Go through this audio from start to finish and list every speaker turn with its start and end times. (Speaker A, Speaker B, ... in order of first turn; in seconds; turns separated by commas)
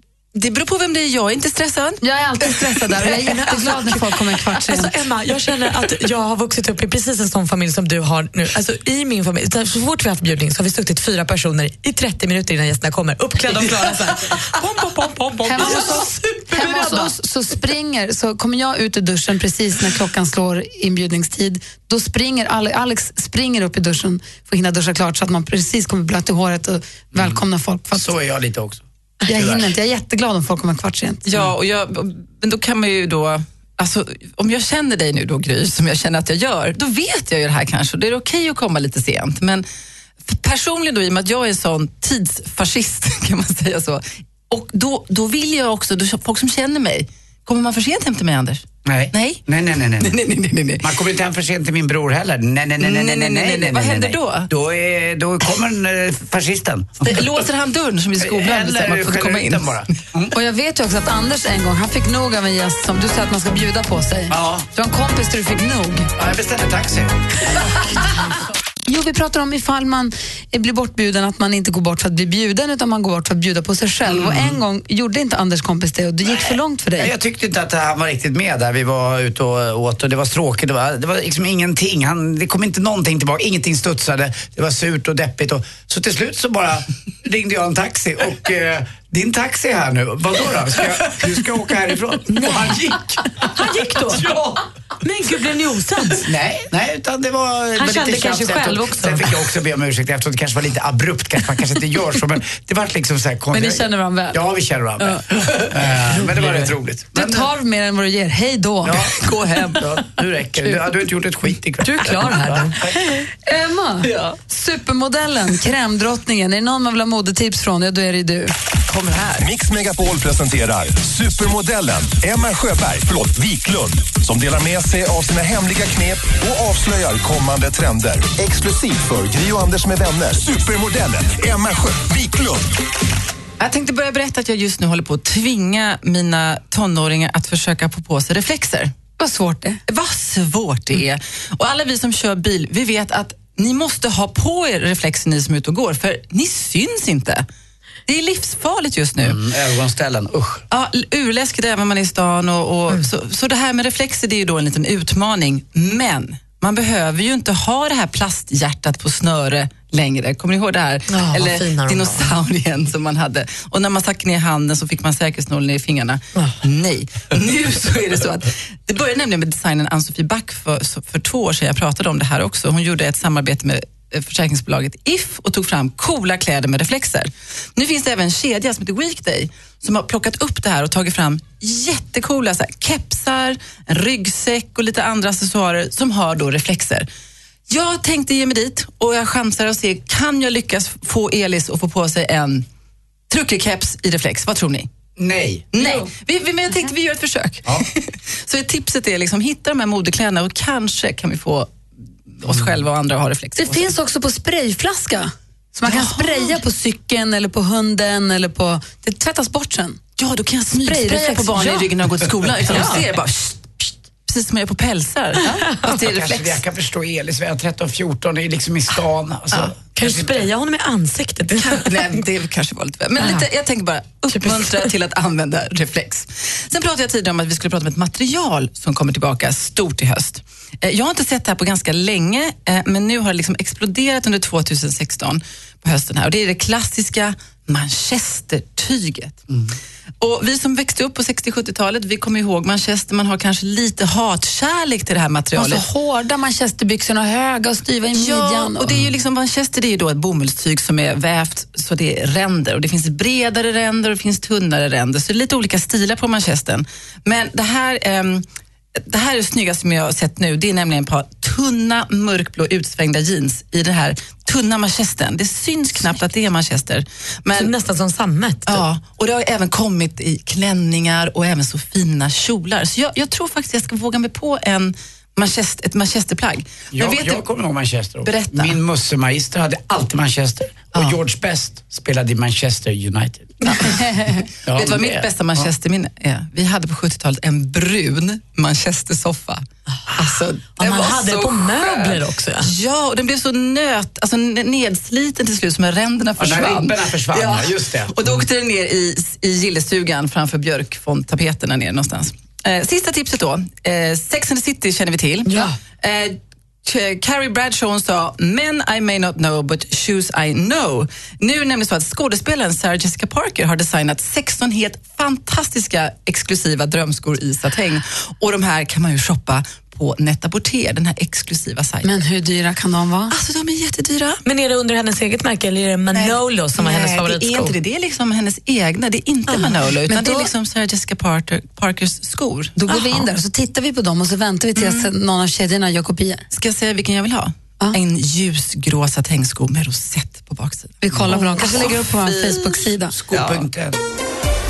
Speaker A: 0.3-2.0, Speaker B: 2.0-4.9, Speaker C: 3.2-3.9, Speaker C: 4.6-17.1, Speaker B: 15.4-28.1, Speaker D: 27.1-27.4, Speaker D: 27.9-29.7, Speaker B: 29.2-31.4, Speaker A: 31.2-39.6, Speaker A: 40.2-49.4, Speaker D: 48.8-50.1, Speaker A: 50.0-50.9, Speaker D: 50.8-57.4, Speaker A: 52.8-54.5, Speaker A: 57.0-59.8, Speaker D: 58.2-60.3, Speaker B: 60.3-66.1, Speaker D: 64.3-64.7, Speaker D: 66.2-67.2, Speaker B: 68.9-77.1, Speaker D: 74.0-74.6, Speaker D: 76.2-93.2, Speaker C: 92.4-92.8, Speaker C: 93.5-96.3, Speaker D: 96.2-107.5, Speaker C: 97.8-99.3, Speaker B: 103.5-104.4, Speaker B: 107.1-109.0, Speaker D: 108.8-113.0, Speaker A: 109.1-109.9, Speaker C: 111.8-113.3, Speaker B: 113.4-118.5, Speaker A: 114.0-114.4, Speaker A: 118.9-119.4, Speaker E: 119.4-132.7, Speaker A: 133.6-138.9, Speaker B: 139.2-139.8, Speaker A: 139.9-147.4, Speaker A: 148.1-149.4, Speaker D: 149.2-150.6, Speaker A: 150.7-187.1, Speaker C: 161.1-162.3, Speaker A: 187.7-192.7, Speaker A: 193.3-194.9, Speaker D: 195.2-195.7, Speaker A: 195.7-201.7, Speaker B: 195.8-196.1, Speaker A: 202.3-203.9, Speaker D: 202.5-202.7, Speaker B: 203.6-210.0, Speaker A: 205.8-206.6, Speaker A: 210.2-216.6, Speaker B: 210.7-211.9, Speaker D: 212.2-212.9, Speaker B: 212.7-213.0, Speaker C: 215.5-215.8, Speaker D: 215.8-220.4, Speaker C: 219.9-222.2, Speaker A: 221.6-239.4, Speaker C: 223.2-223.4, Speaker C: 224.3-224.9, Speaker A: 240.2-245.8, Speaker B: 245.5-248.9, Speaker A: 248.1-258.4, Speaker A: 259.0-267.7, Speaker C: 267.5-268.8, Speaker A: 268.6-277.4, Speaker D: 276.9-284.0, Speaker A: 278.2-278.8, Speaker B: 283.8-284.4, Speaker D: 284.6-285.7, Speaker A: 284.7-322.1, Speaker C: 290.7-292.7, Speaker D: 296.4-298.4, Speaker C: 305.5-305.7, Speaker B: 322.0-323.3, Speaker A: 323.3-324.4, Speaker C: 324.4-327.8, Speaker A: 326.1-333.2, Speaker B: 330.1-330.5, Speaker B: 332.8-336.4, Speaker A: 334.8-335.1, Speaker A: 336.5-343.4, Speaker B: 341.0-343.1, Speaker D: 343.1-344.0